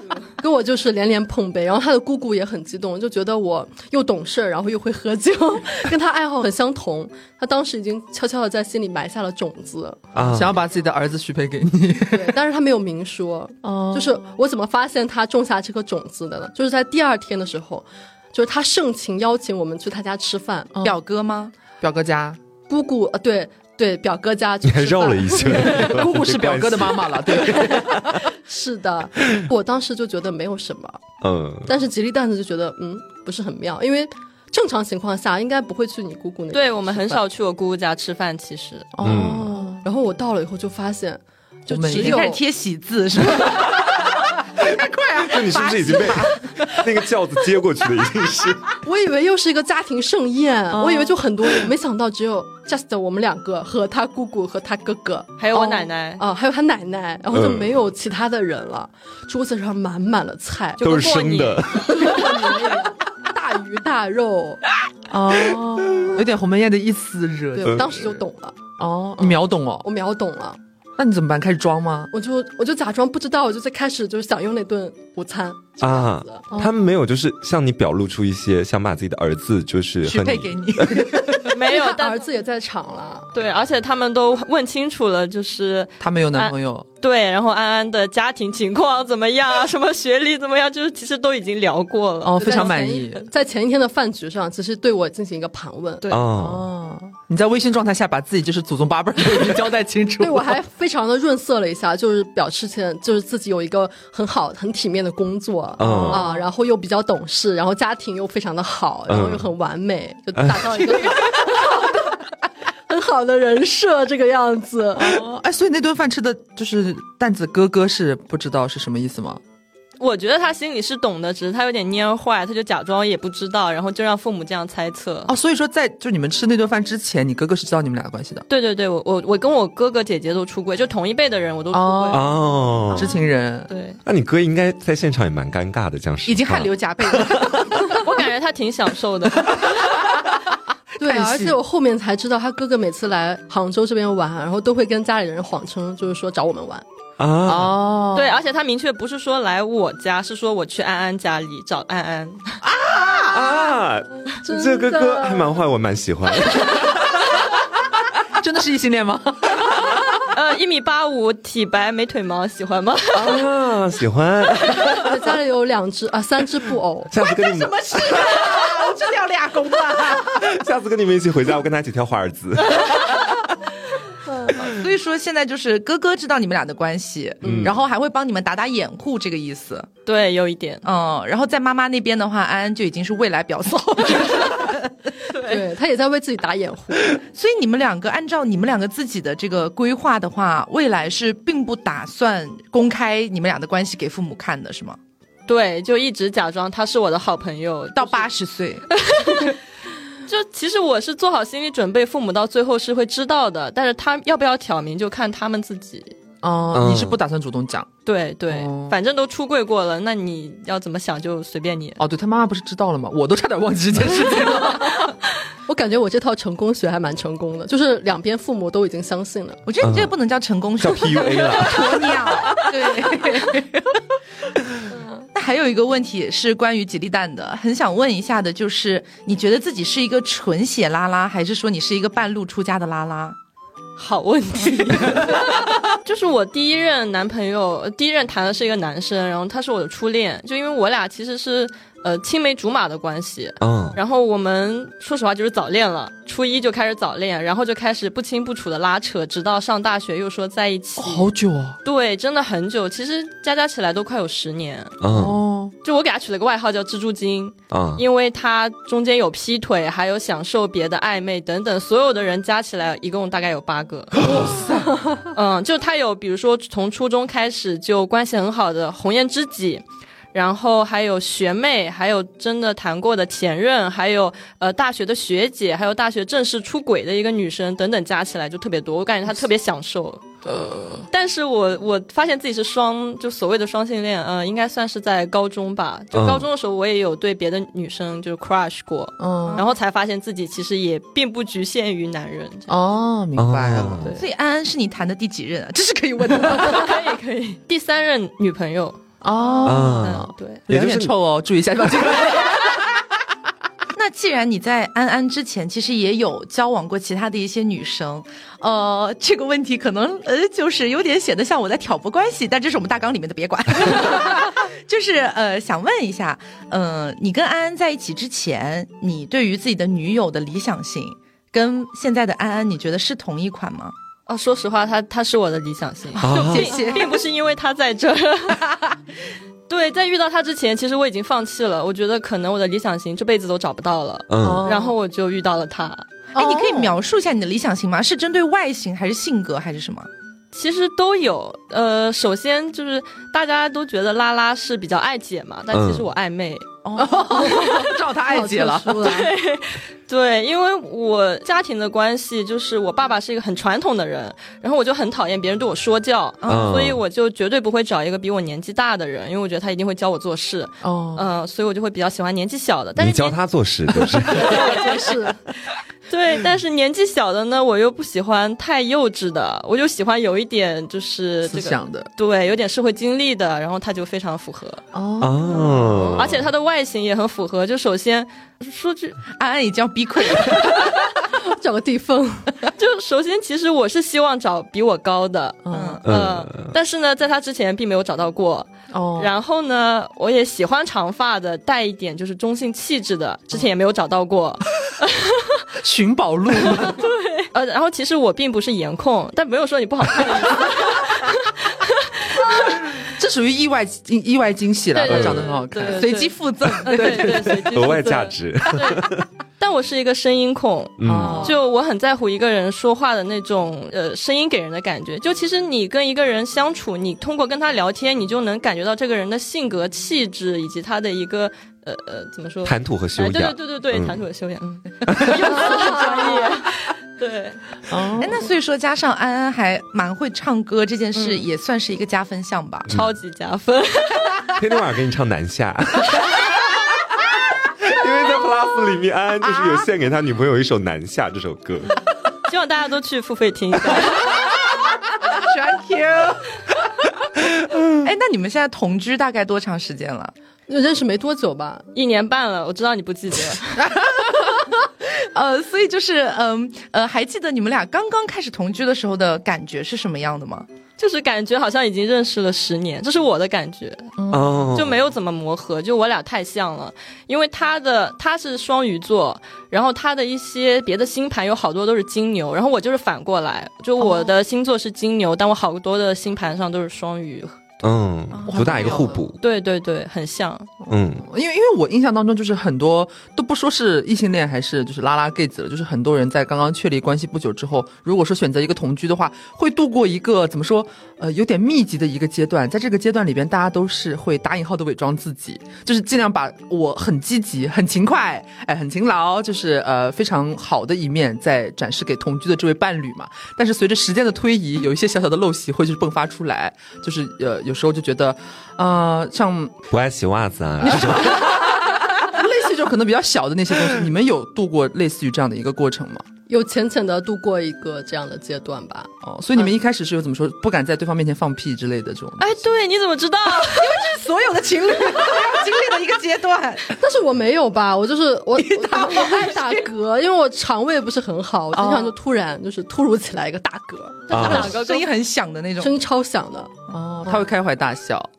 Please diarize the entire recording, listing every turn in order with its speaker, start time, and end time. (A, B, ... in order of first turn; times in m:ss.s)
0:00.4-0:10.1 A
0:10.2-0:10.5 B
0:10.2-0:12.4 C
0:12.1-0:20.7 A
0:13.6-0:14.4 C
0:20.8-0:21.5 D
0:21.8-0:22.4 C
0:22.7-0:26.1 A
0:24.6-0:27.2 B
0:25.5-0:28.3 C
0:27.4-0:31.0 A
0:31.2-0:31.7 B
0:31.7-0:37.2 A
0:36.5-0:38.9 E
0:39.0-0:39.8 C
0:39.0-0:39.5 B
0:39.0-0:42.4 A
0:41.7-0:42.3 C
0:41.9-0:44.1 D
0:44.6-0:48.8 B
0:45.2-0:46.4 D
0:45.5-0:46.1 C
0:48.8-1:04.6 A
0:50.7-0:51.2 C
0:55.4-0:56.2 E
0:57.3-0:57.7 B
1:00.8-1:02.5 B
1:01.0-1:01.6 E
1:05.1-1:08.2 C
1:07.6-1:08.6 A
1:07.7-1:07.9 B
1:08.8-1:09.9 C
1:09.8-1:10.6 A
1:11.0-1:12.1 C
1:12.1-1:16.5 A
1:15.8-1:21.3 B
1:20.1-1:21.4 C
1:20.1-1:21.3 D
1:21.5-1:22.2 E
1:21.5-1:23.3 A
1:23.3-1:32.8 E
1:26.0-1:26.9 C
1:32.2-1:33.2 C
1:32.4-1:36.1 A
1:36.1-1:36.7 B
1:36.4-1:40.6 C
1:40.2-1:52.3 A
1:45.8-1:46.2 B
1:45.8-1:46.5 C
1:49.1-1:49.5 B
1:50.4-1:50.8 B
1:52.9-1:55.2 A
1:55.0-1:59.4 C
2:00.0-2:05.3 E
2:05.3-2:08.5 C
2:08.5-2:13.1 E
2:11.7-2:13.7 C
2:12.1-2:13.1 B
2:13.7-2:14.0 E
2:14.1-2:17.9 B
2:16.3-2:18.1 D
2:17.9-2:19.8 E
2:21.0-2:21.6 C
2:21.0-2:26.8 A
2:27.2-2:27.8 B
2:27.4-2:28.4 C
2:28.1-2:32.6 E
2:32.6-2:33.5 C
2:33.3-2:37.1 B
2:34.4-2:35.6 A
2:38.4-2:40.1 C
2:40.3-2:43.4 E
2:43.2-2:43.8 C
2:43.2-2:45.1 B
2:44.9-2:47.1 A
2:47.1-2:48.4 B
2:47.2-2:50.4 D
2:50.3-2:53.4 B
2:54.3-2:54.6 A
2:54.6-2:59.9 D
2:57.4-2:57.7 B
2:57.4-2:57.8 A
3:00.1-3:00.8 E
3:00.8-3:04.9 D
3:05.3-3:05.6 E
3:05.4-3:07.2 A
3:07.3-3:15.0 D
3:15.5-3:18.3 E
3:18.0-3:18.9 D
3:18.9-3:19.6 E
3:20.3-3:26.2 E
3:26.4-3:27.9 C
3:26.7-3:27.2 B
3:28.1-3:32.0 E
3:28.5-3:29.0 C
3:32.0-3:35.1 C
3:34.3-3:35.1 A
3:35.7-3:39.6 A
3:39.7-3:44.0 D
3:39.8-3:40.1 B
3:40.8-3:42.6 B
3:42.8-3:43.4 C
3:45.3-3:53.4 D
3:54.0-4:11.3 E
4:03.6-4:04.0 B
4:11.0-4:11.8 C
4:11.8-4:15.0 E
4:15.0-4:15.4 B
4:15.1-4:15.7 C
4:15.8-4:24.5 E
4:17.7-4:18.0 B
4:24.2-4:25.0 C
4:24.4-4:25.2 A
4:25.3-4:52.7 E
4:46.1-4:46.5 B
4:49.2-4:49.6 C
4:49.4-4:49.7 D
4:52.7-4:54.2 C
4:53.4-4:54.1 B
4:54.2-4:56.9 D
4:56.4-5:00.6 E
4:59.2-5:03.0 C
4:59.6-5:01.1 B
5:03.9-5:23.9 D
5:24.3-5:28.6 E
5:26.2-5:27.2 D
5:26.2-5:26.7 B
5:26.4-5:27.1 C
5:29.7-5:36.1 E
5:34.3-5:34.7 B
5:34.4-5:35.0 C
5:36.3-5:37.0 C
5:36.4-5:40.1 D
5:40.5-5:46.8 E
5:45.7-5:46.1 B
5:46.8-5:47.5 D
5:47.0-5:49.2 C
5:47.3-5:47.9 E
5:48.2-5:49.3 A
5:49.0-6:03.4 E
5:56.4-5:56.9 D
5:56.5-5:57.0 B
6:00.8-6:01.2 C
6:03.0-6:04.8 B
6:04.3-6:05.2 E
6:04.3-6:05.4 A
6:06.1-6:14.8 E
6:11.4-6:12.1 C
6:14.9-6:16.4 C
6:15.2-6:16.4 B
6:16.1-6:19.2 E
6:19.4-6:21.0 D
6:21.3-6:22.5 A
6:22.8-6:35.6 E
6:25.6-6:26.0 C
6:25.7-6:26.0 D
6:26.0-6:26.7 B
6:28.9-6:29.3 C
6:35.8-6:37.1 C
6:36.7-6:42.9 E
6:43.0-6:47.7 C
6:44.9-7:07.6 E
6:45.1-6:45.5 B
6:45.9-6:47.5 D
6:47.7-6:49.2 B
6:51.0-6:51.5 B
6:51.0-6:51.6 C
7:02.6-7:04.2 B
7:05.1-7:05.4 B
7:05.4-7:06.6 A
7:07.9-7:08.5 C
7:08.2-7:12.9 D
7:11.2-7:11.4 E
7:12.9-7:14.5 E
7:14.6-7:16.6 B
7:17.8-7:22.0 B
7:22.5-7:24.4 E
7:24.2-7:24.6 D
7:25.2-7:26.5 D
7:27.9-7:30.3 D
7:30.7-7:31.9 A
7:31.9-7:33.9 E
7:34.0-7:40.7 D
7:41.0-7:44.2 E
7:44.2-7:44.6 C
7:44.3-7:45.0 B
7:44.7-7:57.6 E
7:57.8-7:59.4 B
7:58.3-7:59.2 D
7:58.5-7:59.2 C
7:59.4-8:00.7 E
8:00.9-8:29.8 C
8:00.9-8:01.2 B
8:29.9-8:31.7 B
8:30.9-8:36.2 C
8:36.5-8:39.1 A
8:39.2-8:42.6 C
8:42.4-8:44.0 E
8:43.6-8:47.0 D
8:46.9-8:54.6 A
8:48.6-8:49.9 D
8:51.7-8:52.1 C
8:54.3-8:55.1 E
8:54.3-8:54.7 B
8:54.4-8:55.9 D
8:55.8-8:56.7 A
8:56.9-8:58.3 C